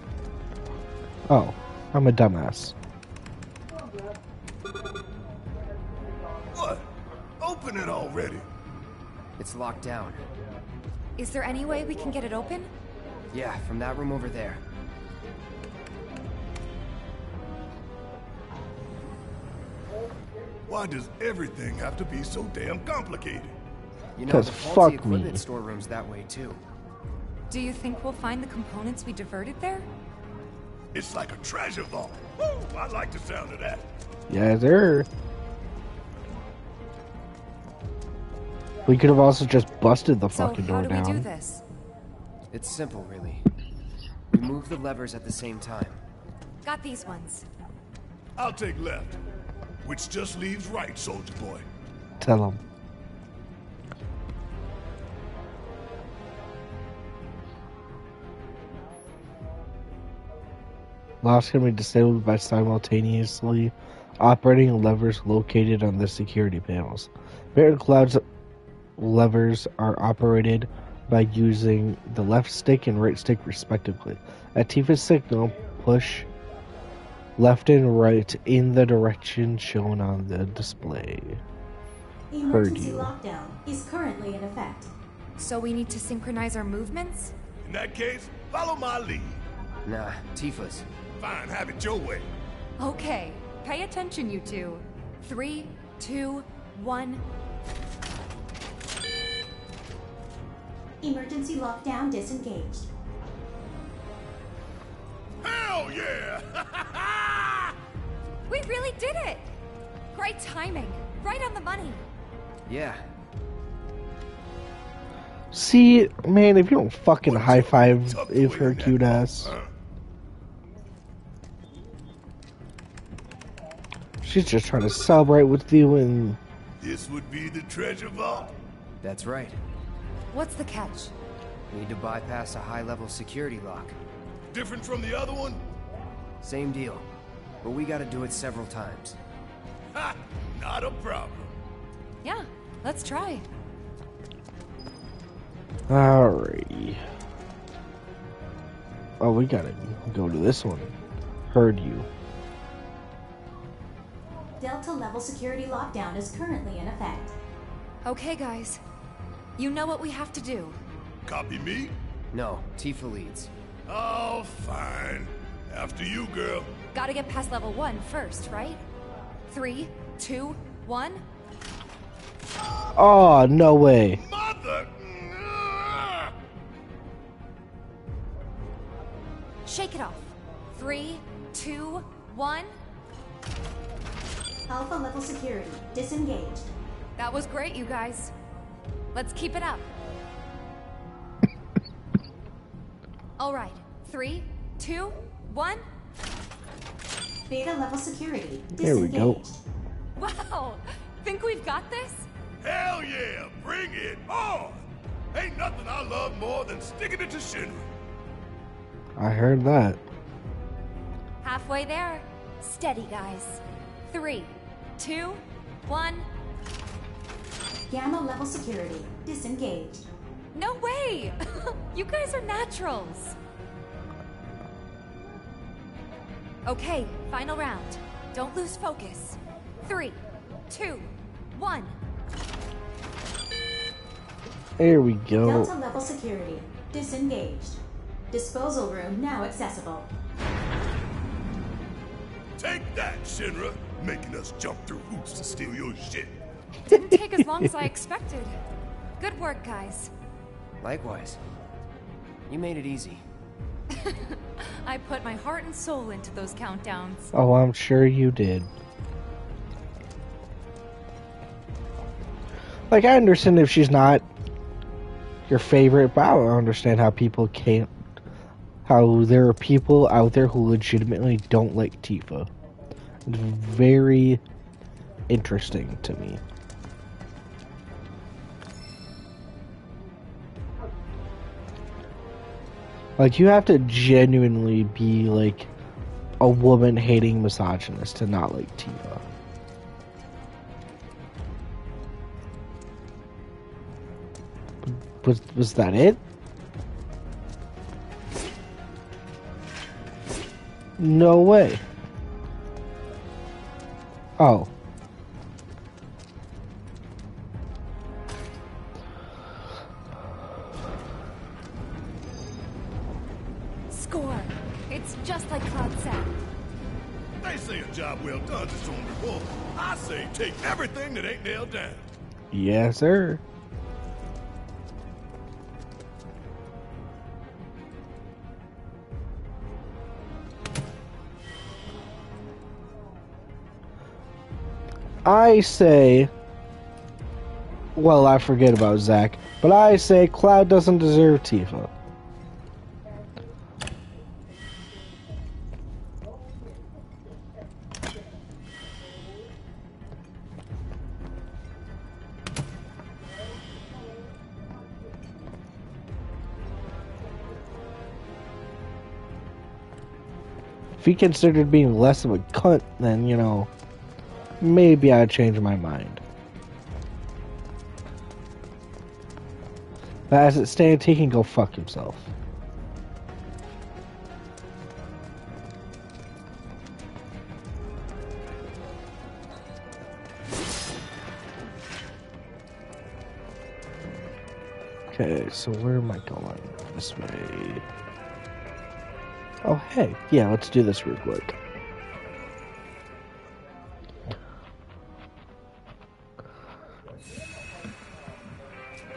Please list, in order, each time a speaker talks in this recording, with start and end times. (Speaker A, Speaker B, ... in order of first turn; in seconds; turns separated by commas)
Speaker A: 1.3-2.8, Speaker B: 6.5-6.9, Speaker B: 7.4-8.5, Speaker C: 9.4-10.2, Speaker D: 11.2-12.7, Speaker C: 13.3-14.6, Speaker B: 20.7-23.6, Speaker C: 24.2-26.6, Speaker A: 24.3-25.4, Speaker D: 27.5-29.9, Speaker B: 30.9-33.9, Speaker A: 34.3-35.1, Speaker A: 38.9-41.3, Speaker D: 40.3-41.6, Speaker C: 42.5-43.5, Speaker C: 44.3-46.0, Speaker D: 46.6-47.5, Speaker B: 48.4-49.2, Speaker B: 49.8-51.7, Speaker A: 52.2-52.6, Speaker A: 61.2-68.2, Speaker A: 69.0-76.3, Speaker A: 77.4-81.4, Speaker E: 82.3-84.9, Speaker A: 82.5-83.1, Speaker D: 85.4-87.3, Speaker B: 87.6-89.4, Speaker C: 89.9-90.9, Speaker B: 91.2-92.3, Speaker D: 92.8-97.2, Speaker E: 101.0-102.9, Speaker B: 105.4-107.8, Speaker D: 108.5-109.5, Speaker D: 110.1-112.0, Speaker C: 112.7-113.0, Speaker A: 115.5-119.5, Speaker B: 117.3-119.7, Speaker A: 124.2-126.4, Speaker B: 126.8-128.5, Speaker C: 129.0-129.6, Speaker D: 130.3-131.1, Speaker C: 131.7-134.0, Speaker B: 134.5-135.6, Speaker C: 136.4-137.1, Speaker C: 137.6-139.2, Speaker B: 139.9-141.5, Speaker D: 142.2-143.5, Speaker A: 145.9-147.0, Speaker A: 149.2-150.9, Speaker A: 151.5-152.1, Speaker E: 154.6-157.3, Speaker D: 158.0-158.8, Speaker D: 159.6-160.8, Speaker B: 161.3-161.9, Speaker C: 162.3-163.5, Speaker B: 163.9-166.7, Speaker D: 166.9-168.8, Speaker D: 169.5-171.2, Speaker A: 172.9-174.2, Speaker B: 174.2-176.3, Speaker D: 179.7-182.7, Speaker E: 184.7-186.7, Speaker D: 187.2-188.3, Speaker D: 189.1-189.9, Speaker D: 193.4-195.8, Speaker E: 197.5-199.6, Speaker A: 198.8-199.4, Speaker D: 200.2-202.3, Speaker B: 202.6-207.9, Speaker A: 209.2-210.0, Speaker D: 211.4-216.3, Speaker E: 217.9-220.1, Speaker D: 220.5-223.4, Speaker D: 226.7-231.9, Speaker A: 234.8-235.7, Speaker E: 235.4-237.8, Speaker E: 238.3-240.1, Speaker B: 242.6-246.4, Speaker D: 246.9-248.6, Speaker A: 246.9-247.2, Speaker D: 249.2-250.1, Speaker C: 250.8-251.4, Speaker C: 252.5-253.2, Speaker D: 253.9-257.3, Speaker A: 257.3-258.7, Speaker A: 262.9-264.2, Speaker A: 265.5-267.9, Speaker A: 268.9-272.5, Speaker A: 273.3-274.4, Speaker A: 275.3-276.4, Speaker A: 283.2-285.7, Speaker A: 286.4-289.2, Speaker A: 294.9-296.2, Speaker A: 301.0-301.8, Speaker A: 304.4-304.7, Speaker D: 313.9-316.3, Speaker B: 317.4-322.0, Speaker A: 322.5-323.4, Speaker A: 335.2-336.3, Speaker A: 338.0-341.9, Speaker A: 361.0-363.7, Speaker A: 364.6-366.2, Speaker A: 370.3-372.3, Speaker A: 385.1-387.8, Speaker A: 389.6-391.6